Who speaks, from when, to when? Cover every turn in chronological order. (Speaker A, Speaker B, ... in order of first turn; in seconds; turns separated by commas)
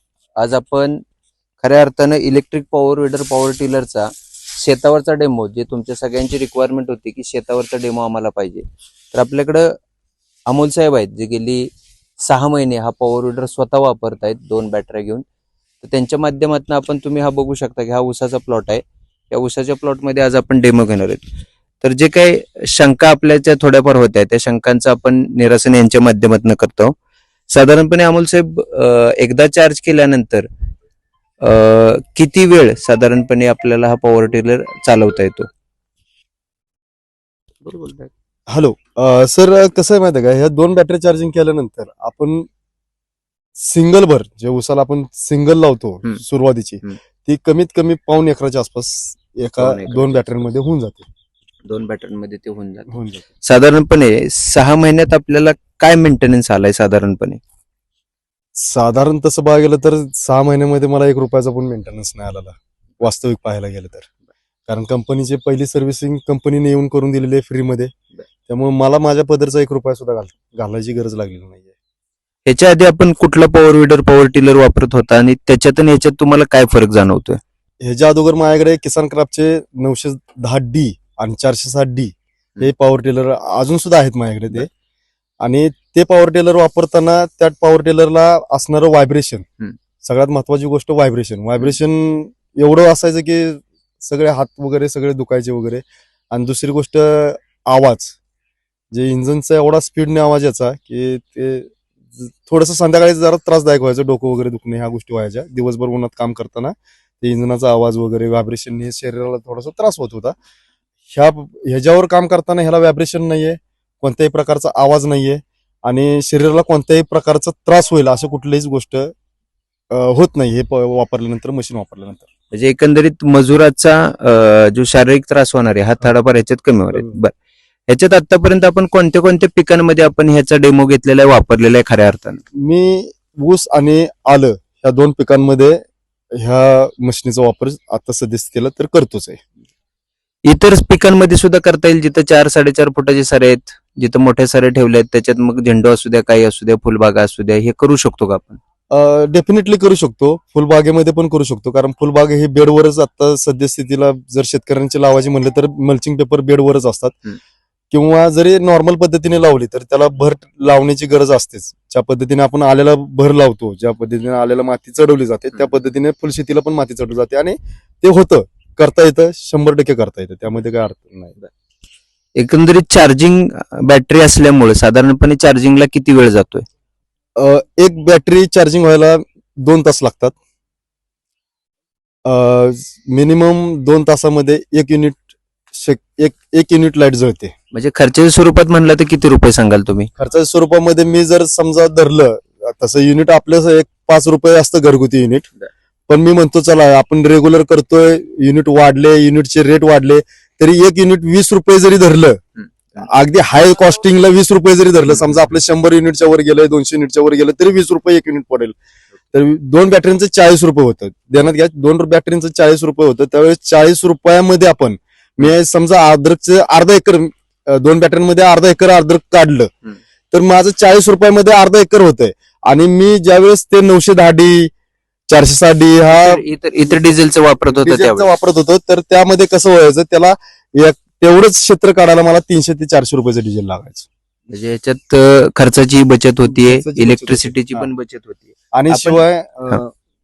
Speaker A: 0.4-1.0, Speaker A: 1.6-9.7, Speaker A: 10.5-11.7, Speaker A: 12.2-15.2, Speaker A: 15.8-21.2, Speaker A: 21.8-27.0, Speaker A: 27.5-30.5, Speaker A: 31.4-35.5, Speaker A: 37.6-38.1, Speaker B: 38.5-42.5, Speaker B: 43.6-51.1, Speaker A: 49.6-50.5, Speaker A: 51.7-57.4, Speaker B: 52.9-53.3, Speaker B: 58.6-64.1, Speaker B: 64.7-67.9, Speaker B: 68.5-71.7, Speaker A: 72.5-77.4, Speaker B: 77.8-84.7, Speaker B: 85.4-89.5, Speaker B: 90.0-98.2, Speaker B: 98.9-110.3, Speaker B: 111.1-119.1, Speaker B: 119.9-122.3, Speaker A: 122.5-127.3, Speaker A: 127.9-132.4, Speaker B: 132.6-135.8, Speaker B: 136.4-139.4, Speaker A: 140.4-148.6, Speaker B: 148.9-157.2, Speaker B: 157.9-171.4, Speaker A: 172.4-176.7, Speaker B: 177.4-180.4, Speaker B: 182.2-187.5, Speaker A: 187.7-190.1, Speaker B: 190.2-195.5, Speaker B: 196.1-202.4, Speaker A: 202.6-203.1, Speaker B: 203.0-208.8, Speaker B: 209.3-219.7, Speaker B: 220.3-224.7, Speaker B: 225.3-227.1, Speaker A: 226.1-228.3, Speaker B: 227.7-234.1, Speaker A: 234.5-239.8, Speaker B: 236.4-237.9, Speaker B: 238.7-239.9